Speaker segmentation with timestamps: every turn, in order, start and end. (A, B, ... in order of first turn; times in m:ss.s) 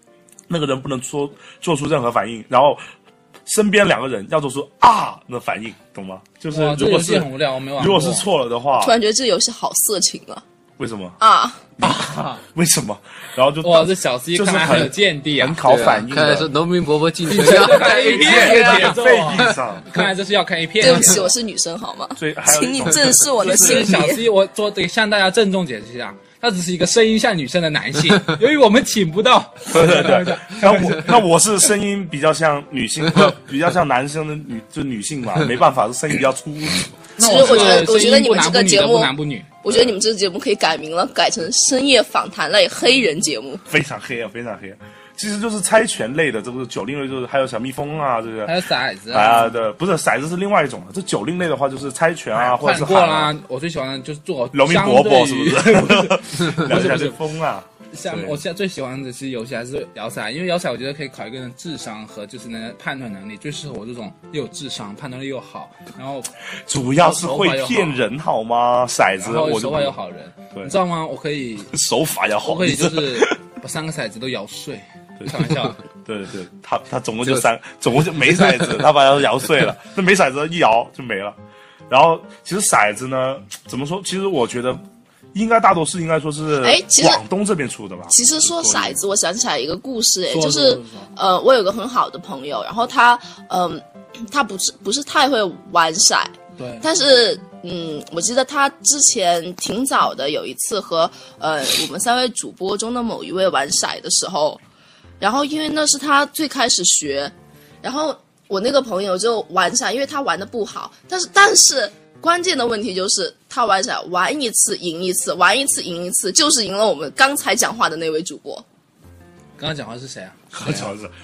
0:00.5-0:02.8 A
0:03.5-0:09.0 A
0:06.5-0:08.3 B
0:08.8-0:10.4 C
0:10.8-0:11.2 A
0:11.2-0:11.6 C
0:11.8-0:16.5 A
0:11.8-0:12.4 B
0:13.6-0:15.6 B
0:15.6-0:19.6 D
0:17.3-0:21.3 B
0:17.5-0:19.9 A
0:20.8-0:24.2 C
0:22.2-0:24.0 A
0:23.4-0:31.2 B
0:29.7-0:37.9 A
0:37.2-0:39.5 B
0:37.2-0:43.6 C
0:39.7-0:40.0 A
0:43.7-0:53.3 A
0:48.4-0:49.6 B
0:52.3-0:57.2 B
0:54.5-0:58.4 A
0:57.9-1:06.3 B
1:06.7-1:10.0 A
1:07.0-1:08.0 B
1:09.2-1:11.7 B
1:11.7-1:13.4 A
1:12.4-1:15.8 B
1:15.2-1:21.4 A
1:21.9-1:24.8 A
1:25.3-1:29.0 A
1:26.6-1:27.2 C
1:28.1-1:44.6 C
1:30.3-1:31.1 B
1:36.6-1:36.9 B
1:45.2-1:58.6 C
1:59.6-2:00.9 B
2:00.5-2:01.1 A